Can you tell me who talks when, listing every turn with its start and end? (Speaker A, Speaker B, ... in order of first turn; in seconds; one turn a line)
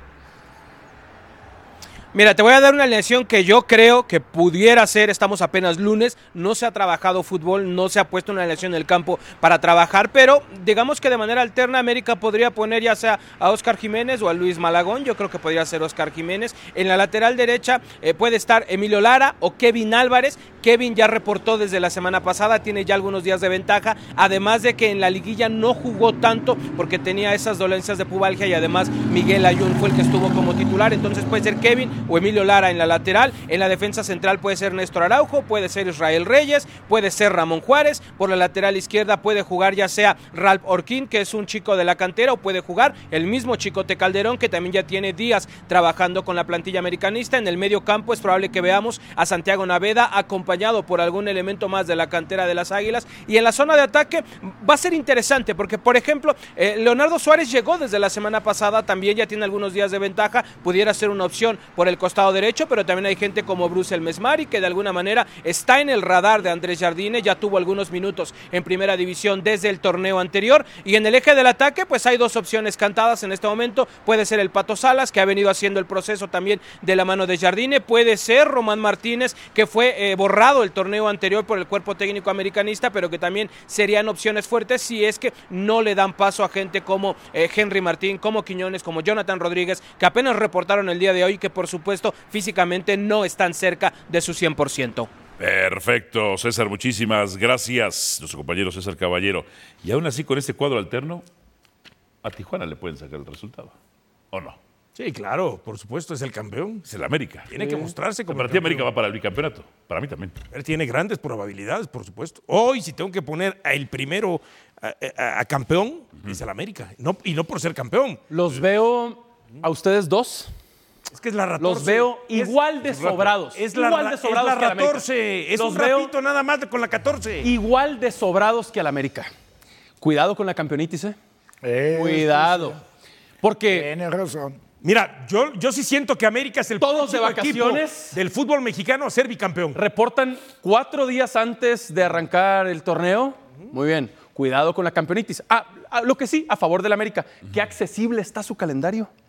Speaker A: 2.1-95.1
Speaker B: 95.4-101.2
Speaker B: 102.2-103.7
Speaker B: 104.3-104.6
Speaker C: 104.9-106.8
Speaker B: 106.8-107.5
Speaker C: 107.5-108.9
Speaker D: 107.6-107.9
Speaker B: 108.3-110.4
Speaker C: 110.5-118.2
Speaker D: 118.3-120.5
Speaker C: 121.1-122.6
Speaker D: 121.6-126.1
Speaker B: 122.8-123.3
Speaker C: 123.5-127.5
Speaker D: 127.4-129.3
Speaker D: 130.0-131.2
Speaker E: 131.6-132.8
Speaker D: 131.9-132.8
Speaker D: 133.4-133.9
Speaker E: 133.7-134.6
Speaker C: 134.8-139.8
Speaker D: 136.8-138.2
Speaker D: 139.7-149.1